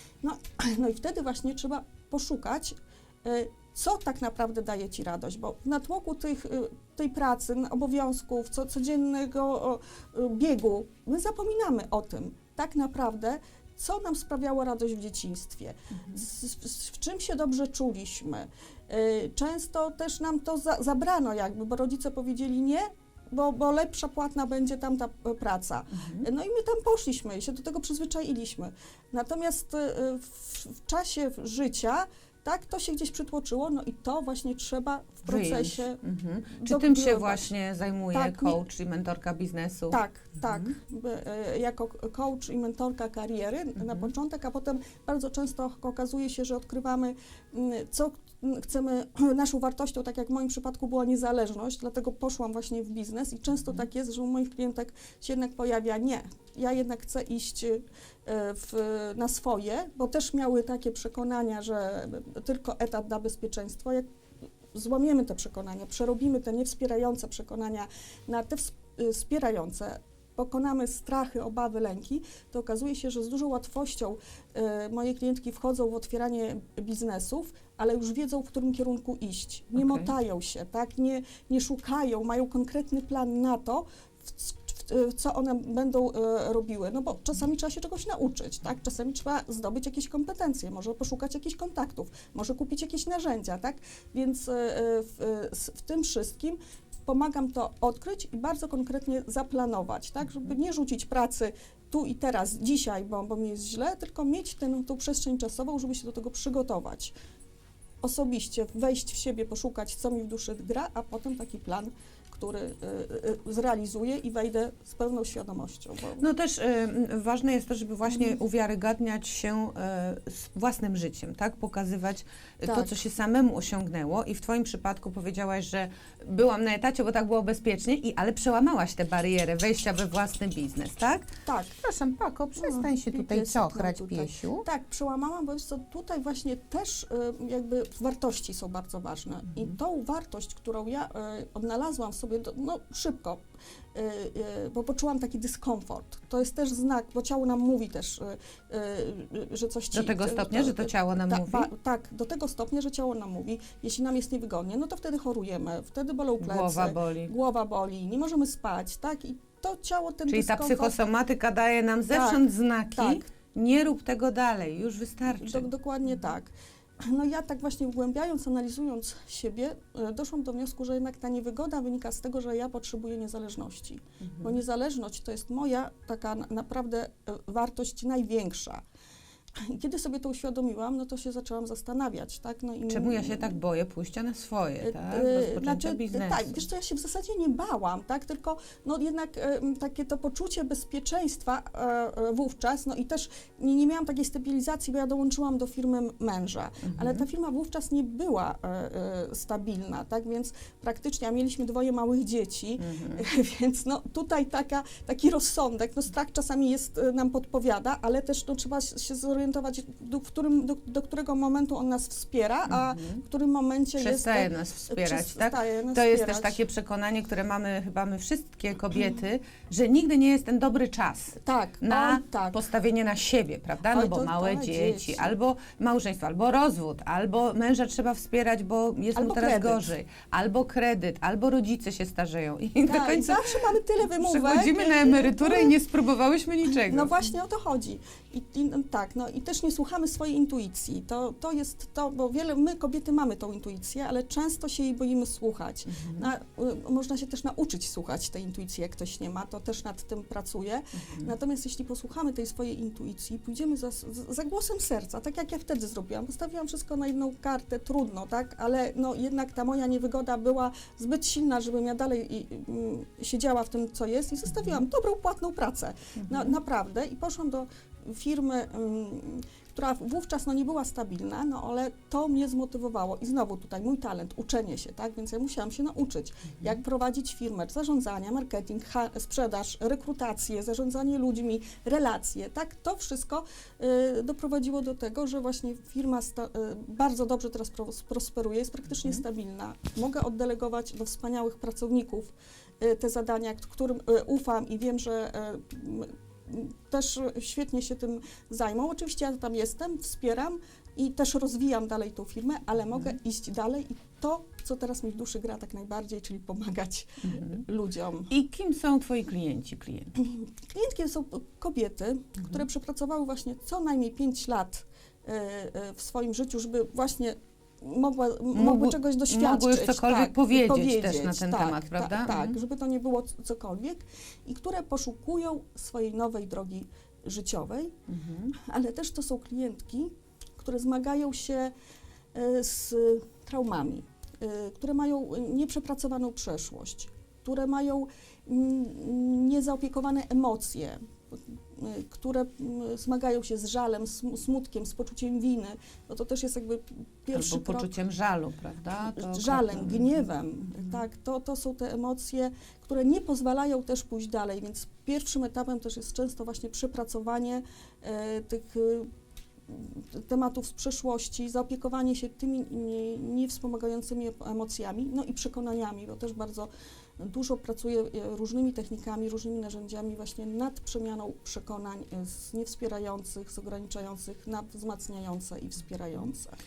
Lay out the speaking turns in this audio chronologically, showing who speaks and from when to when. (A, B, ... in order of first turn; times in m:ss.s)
0:00.2-0:36.0 A
0:15.9-0:16.2 B
0:25.9-0:26.2 B
0:35.2-0:40.7 B
0:36.5-0:37.5 A
0:38.1-0:38.6 A
0:39.9-1:04.0 A
0:43.8-0:44.1 B
1:04.7-1:47.1 A
1:19.7-1:20.1 B
1:48.0-1:56.2 A
1:56.2-2:14.6 B
2:02.6-2:03.0 A
2:11.4-2:11.8 A
2:12.6-2:23.4 A
2:23.9-2:41.0 A
2:29.9-2:31.7 B
2:36.4-2:37.3 B
2:40.3-2:45.7 B
2:42.1-2:43.3 A
2:45.3-2:46.5 A
2:47.0-2:58.8 A
2:59.6-3:03.6 A
3:02.9-3:06.6 B
3:04.8-3:36.6 A
3:16.9-3:17.2 B
3:22.8-3:23.2 B
3:32.7-3:33.2 B
3:34.0-3:57.1 B
3:41.4-3:42.6 A
3:43.8-3:45.4 A
3:49.1-3:49.8 A
3:52.8-3:55.8 A
3:56.6-5:08.3 A
4:05.9-4:06.3 B
4:11.0-4:11.3 B
4:24.5-4:24.8 B
4:26.2-4:26.5 B
5:07.3-5:07.6 B
5:08.3-5:10.1 B
5:10.2-5:27.9 A
5:18.5-5:22.5 B
5:28.1-5:28.5 B
5:28.6-5:31.7 A
5:32.3-5:47.9 A
5:47.3-5:50.2 B
5:49.1-5:59.1 A
5:59.7-6:16.6 A